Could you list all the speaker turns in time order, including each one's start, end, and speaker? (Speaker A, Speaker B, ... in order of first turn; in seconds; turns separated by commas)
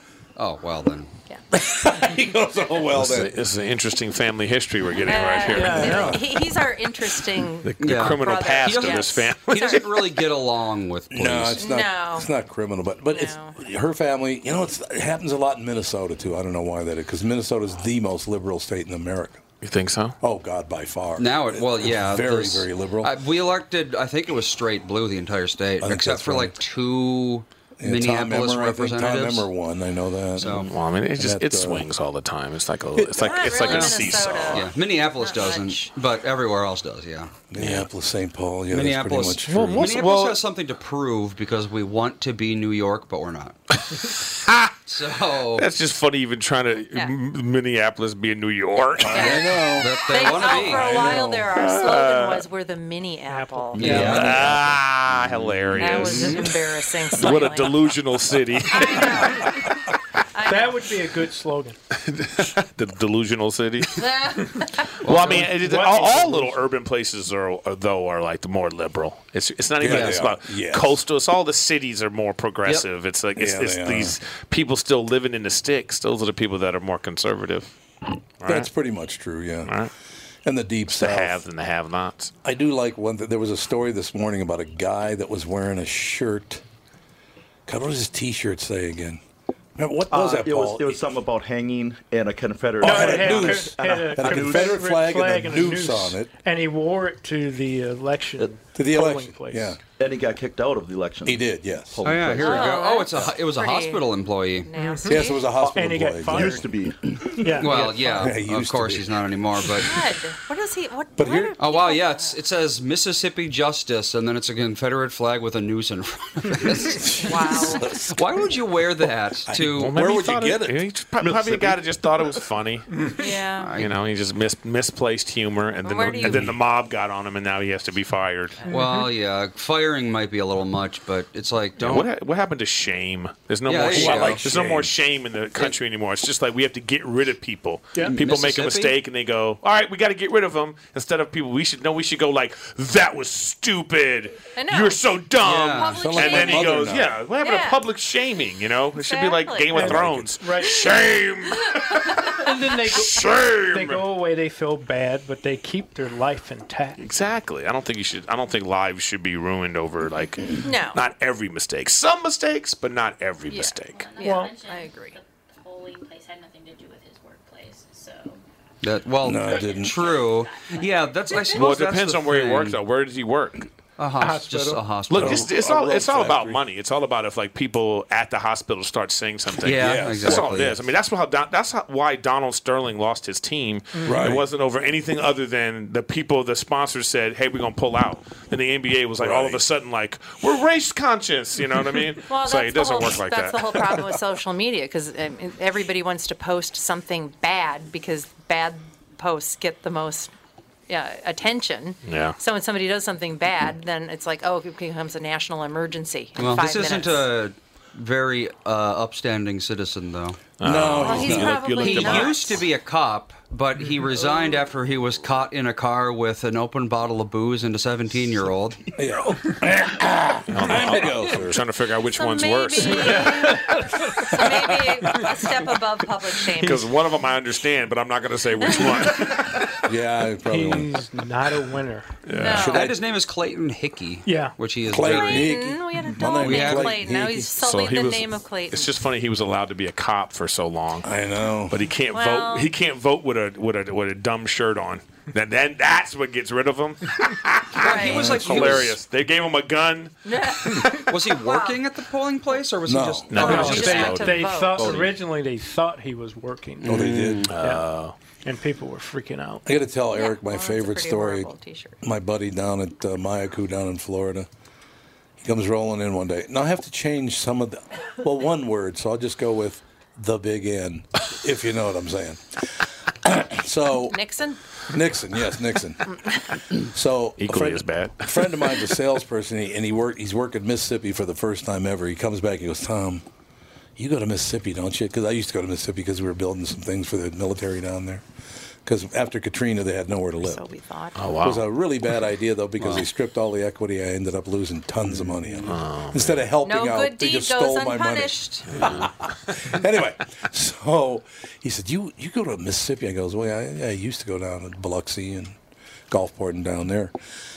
Speaker A: 0.3-1.1, Speaker B: 1.3-1.7, Speaker C: 1.5-3.4, Speaker D: 2.9-6.2, Speaker B: 5.0-9.8, Speaker E: 5.5-6.2, Speaker C: 5.7-6.2, Speaker D: 7.6-10.2, Speaker A: 7.8-11.6, Speaker C: 11.1-19.4, Speaker B: 11.6-12.3, Speaker B: 13.1-13.6, Speaker D: 19.6-20.2, Speaker C: 20.2-23.1, Speaker A: 21.2-29.5, Speaker C: 25.8-26.6, Speaker C: 27.8-30.6, Speaker A: 30.4-30.7, Speaker D: 30.4-34.7, Speaker C: 31.1-31.9, Speaker C: 33.0-33.5, Speaker B: 33.2-35.9, Speaker A: 33.6-37.3, Speaker C: 37.5-39.9, Speaker D: 37.6-37.9, Speaker A: 38.7-43.6, Speaker D: 39.4-40.4, Speaker D: 43.9-44.7, Speaker A: 44.9-45.7, Speaker D: 45.5-49.5, Speaker C: 49.0-51.5, Speaker B: 49.1-54.2, Speaker A: 49.7-51.1, Speaker D: 51.5-52.4, Speaker E: 53.3-54.2, Speaker A: 53.8-55.2, Speaker D: 53.8-56.6, Speaker C: 53.9-54.5, Speaker A: 55.7-56.5, Speaker B: 55.8-57.8, Speaker D: 57.1-59.6, Speaker B: 58.7-59.8, Speaker B: 60.3-60.8, Speaker E: 60.4-61.8, Speaker D: 61.9-64.0, Speaker B: 63.9-65.1, Speaker D: 65.0-77.7, Speaker E: 65.1-66.6, Speaker C: 69.8-71.0, Speaker A: 69.8-70.2, Speaker C: 73.3-74.2, Speaker D: 78.4-78.7, Speaker C: 78.4-79.7, Speaker D: 79.6-79.9, Speaker C: 80.4-81.4, Speaker D: 80.9-82.3, Speaker C: 82.4-86.6, Speaker C: 87.7-89.2, Speaker C: 89.8-91.0, Speaker F: 90.1-94.8, Speaker E: 92.8-99.7, Speaker C: 92.8-96.3, Speaker C: 98.7-99.8, Speaker F: 100.0-102.7, Speaker C: 101.2-102.0, Speaker A: 102.0-104.7, Speaker B: 102.3-104.0, Speaker B: 104.6-105.5, Speaker E: 104.8-106.7, Speaker C: 105.0-106.7, Speaker F: 106.3-107.6, Speaker E: 107.2-108.4, Speaker A: 107.5-110.1, Speaker C: 108.2-109.3, Speaker B: 109.8-112.4, Speaker C: 111.2-111.5, Speaker A: 111.6-120.0, Speaker C: 116.8-118.3, Speaker B: 117.2-117.9, Speaker C: 119.4-121.8, Speaker D: 119.6-123.0, Speaker B: 123.2-123.7, Speaker A: 123.6-123.9, Speaker D: 123.8-128.6, Speaker B: 125.8-126.5, Speaker E: 128.7-129.1, Speaker A: 128.7-132.1, Speaker D: 131.8-154.0, Speaker A: 133.7-134.5, Speaker C: 133.9-134.9, Speaker A: 138.0-138.9, Speaker B: 144.6-145.0, Speaker A: 145.4-146.1, Speaker B: 145.7-147.8, Speaker C: 146.0-147.2, Speaker B: 149.0-150.0, Speaker E: 149.8-150.8, Speaker C: 149.8-150.4, Speaker B: 151.6-152.4, Speaker E: 152.3-157.1, Speaker D: 157.0-164.1, Speaker B: 160.6-161.0, Speaker B: 163.5-165.2, Speaker G: 163.9-168.4, Speaker E: 164.2-164.5, Speaker A: 168.8-172.8, Speaker C: 169.2-170.1, Speaker G: 169.2-171.5, Speaker D: 171.4-173.7, Speaker A: 174.0-175.5, Speaker E: 174.2-174.9, Speaker D: 175.1-194.1, Speaker C: 175.1-176.6, Speaker A: 179.6-180.8, Speaker C: 179.7-180.6, Speaker E: 184.0-184.2, Speaker C: 184.0-184.4, Speaker C: 189.2-189.6, Speaker B: 192.3-200.3, Speaker B: 200.9-207.3, Speaker D: 202.0-202.4, Speaker A: 206.4-210.4, Speaker D: 210.6-212.5, Speaker C: 210.6-211.7, Speaker B: 211.0-212.6, Speaker A: 211.1-218.9, Speaker C: 218.9-221.6, Speaker D: 220.5-223.6, Speaker B: 222.2-226.9, Speaker E: 223.6-224.2, Speaker C: 224.2-225.4, Speaker D: 226.6-229.7, Speaker B: 228.6-229.0, Speaker C: 229.8-231.0, Speaker E: 230.4-232.2, Speaker D: 232.3-232.7, Speaker B: 232.3-232.9, Speaker C: 232.4-233.0, Speaker A: 232.5-237.0, Speaker E: 234.2-234.6, Speaker C: 234.8-237.5, Speaker B: 235.0-238.9, Speaker D: 237.6-241.1, Speaker C: 241.0-241.8, Speaker D: 241.7-250.9, Speaker B: 242.1-242.7, Speaker A: 247.8-249.0, Speaker B: 247.8-248.7, Speaker C: 248.1-248.9, Speaker B: 250.2-251.8, Speaker A: 250.8-255.1, Speaker C: 252.8-253.5, Speaker D: 253.3-254.6, Speaker B: 253.3-255.1, Speaker E: 253.4-257.9, Speaker C: 254.8-255.1, Speaker A: 256.8-257.5, Speaker C: 256.8-257.5, Speaker D: 257.5-258.1, Speaker E: 258.4-259.6, Speaker C: 259.6-261.5, Speaker B: 260.1-262.0, Speaker C: 262.0-264.5, Speaker C: 265.4-272.4, Speaker C: 273.2-274.2, Speaker B: 274.1-274.6, Speaker C: 274.9-276.1, Speaker C: 276.8-283.2, Speaker D: 277.4-279.0, Speaker C: 284.0-288.2, Speaker C: 288.8-290.6, Speaker B: 290.4-291.2, Speaker D: 291.1-291.7, Speaker C: 291.4-305.6, Speaker A: 292.8-293.1, Speaker A: 295.1-295.8, Speaker D: 295.6-296.5, Speaker B: 296.6-299.0, Speaker D: 298.7-299.1, Speaker C: 306.1-307.1